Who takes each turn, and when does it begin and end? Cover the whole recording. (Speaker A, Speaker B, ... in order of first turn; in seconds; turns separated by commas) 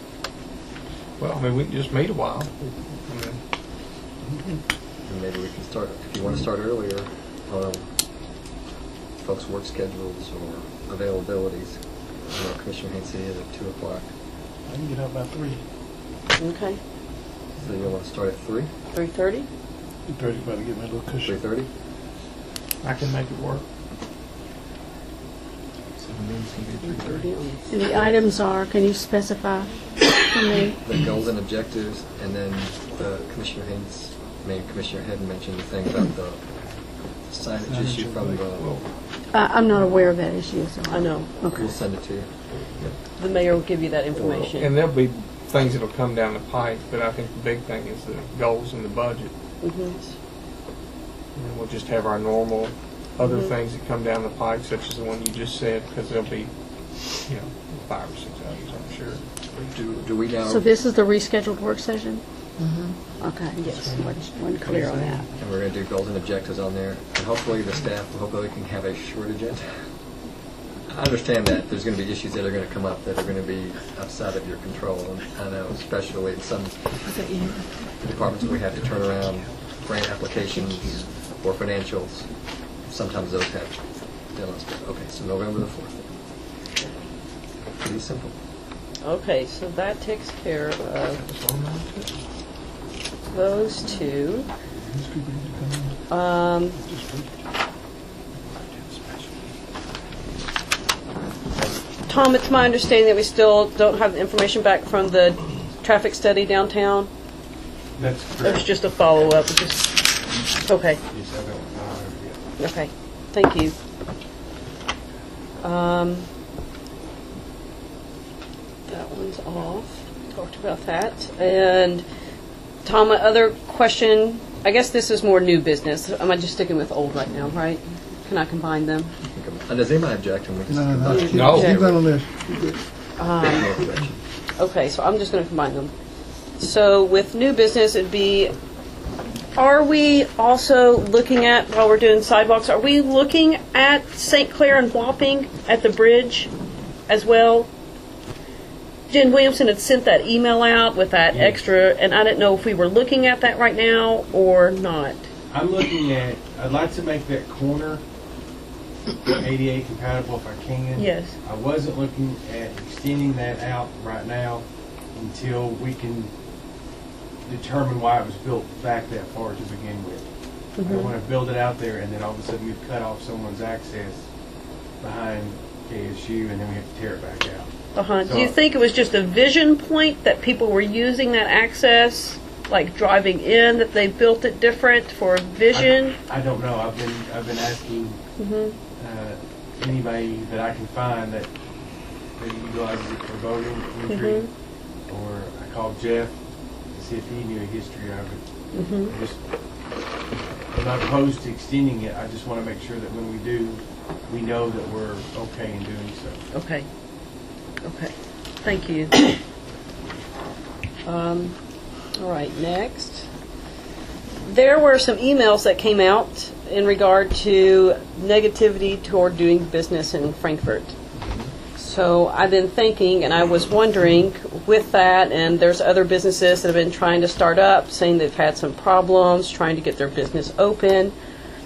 Speaker A: 1.2-3.4, Speaker B: 5.0-7.8, Speaker B: 9.2-11.8, Speaker B: 12.3-14.1, Speaker C: 14.7-15.6, Speaker D: 16.4-16.8, Speaker B: 17.6-18.7, Speaker D: 18.9-19.5, Speaker C: 20.1-21.3, Speaker B: 21.2-21.7, Speaker A: 22.8-23.6, Speaker B: 26.0-27.2, Speaker D: 26.8-28.3, Speaker E: 27.7-30.8, Speaker B: 30.8-36.4, Speaker B: 37.2-38.8, Speaker C: 37.7-38.4, Speaker E: 39.3-41.7, Speaker D: 40.9-41.4, Speaker B: 41.5-42.3, Speaker D: 43.2-44.7, Speaker B: 44.1-44.5, Speaker A: 44.6-49.3, Speaker D: 49.6-50.1, Speaker A: 51.4-56.5, Speaker D: 53.2-53.5, Speaker A: 57.3-59.7, Speaker B: 59.7-60.6, Speaker E: 60.4-62.2, Speaker E: 63.2-65.2, Speaker A: 63.6-65.2, Speaker B: 65.4-69.7, Speaker B: 70.9-76.9, Speaker E: 77.1-77.6, Speaker B: 78.0-82.3, Speaker B: 82.8-83.8, Speaker B: 84.3-86.1, Speaker B: 87.8-88.3, Speaker D: 89.0-91.2, Speaker A: 91.2-92.1, Speaker D: 93.3-94.5, Speaker C: 94.9-95.9, Speaker D: 96.1-96.8, Speaker C: 96.8-97.2, Speaker A: 98.7-99.2, Speaker D: 102.1-107.1, Speaker F: 108.0-109.4, Speaker D: 108.4-111.0, Speaker F: 111.1-112.4, Speaker D: 112.6-113.7, Speaker D: 115.6-116.3, Speaker D: 118.9-122.0, Speaker D: 122.8-129.1, Speaker B: 129.2-132.1, Speaker C: 130.7-132.3, Speaker D: 131.1-131.7, Speaker A: 131.3-131.8, Speaker D: 133.2-133.7, Speaker B: 133.4-134.2, Speaker D: 134.6-135.9, Speaker D: 136.6-138.5, Speaker D: 139.5-146.5, Speaker D: 147.1-147.7, Speaker D: 149.1-155.2, Speaker F: 151.3-151.6, Speaker F: 155.5-158.0, Speaker F: 159.2-166.3, Speaker D: 160.9-161.3, Speaker F: 167.4-170.2, Speaker D: 170.8-171.1, Speaker F: 170.8-174.2, Speaker F: 175.0-178.6, Speaker D: 177.9-186.2, Speaker F: 185.7-188.2, Speaker D: 188.4-188.8, Speaker F: 189.0-191.5, Speaker F: 192.4-194.5, Speaker D: 194.1-194.5, Speaker F: 195.1-196.3, Speaker F: 196.9-198.4, Speaker D: 198.7-199.1, Speaker F: 199.0-199.3, Speaker F: 200.7-206.4, Speaker D: 206.5-206.8, Speaker D: 207.8-209.3, Speaker D: 211.0-211.6, Speaker D: 212.2-213.3, Speaker D: 214.4-220.9, Speaker D: 221.8-231.1